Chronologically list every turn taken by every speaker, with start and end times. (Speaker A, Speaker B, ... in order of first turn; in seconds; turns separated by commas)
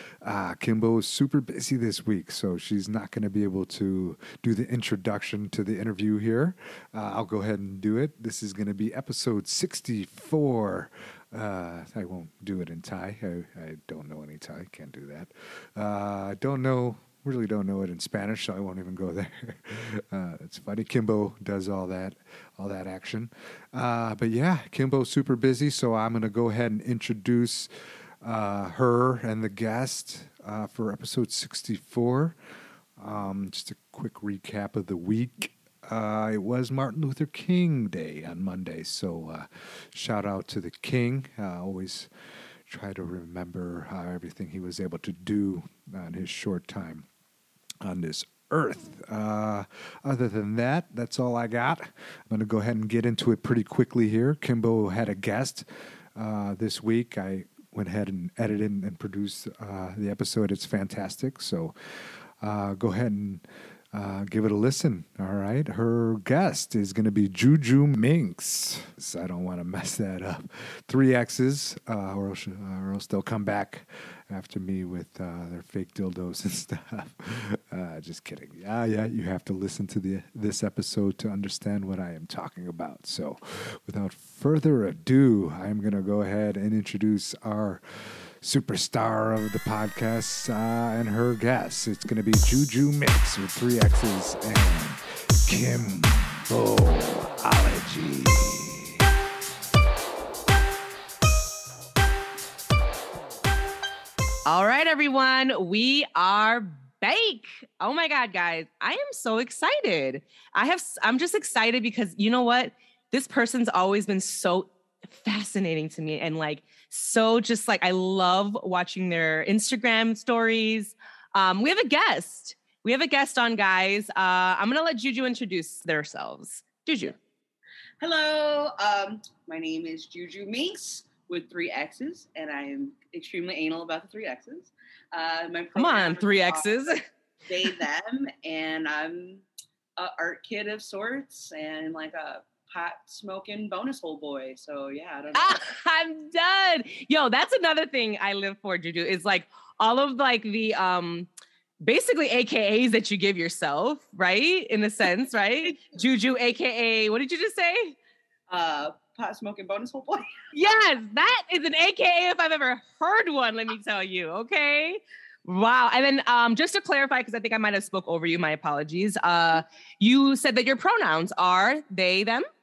Speaker A: 0.2-27.7, Speaker A: 28.2-32.4, Speaker A: 33.0-42.1, Speaker A: 42.6-47.0, Speaker A: 47.8-61.7, Speaker A: 62.4-99.0, Speaker B: 104.5-127.1, Speaker C: 128.0-136.8, Speaker B: 135.8-137.0, Speaker C: 137.5-139.4, Speaker C: 140.0-145.7, Speaker B: 145.3-151.3, Speaker B: 151.8-157.9, Speaker C: 158.5-160.2, Speaker B: 160.5-172.5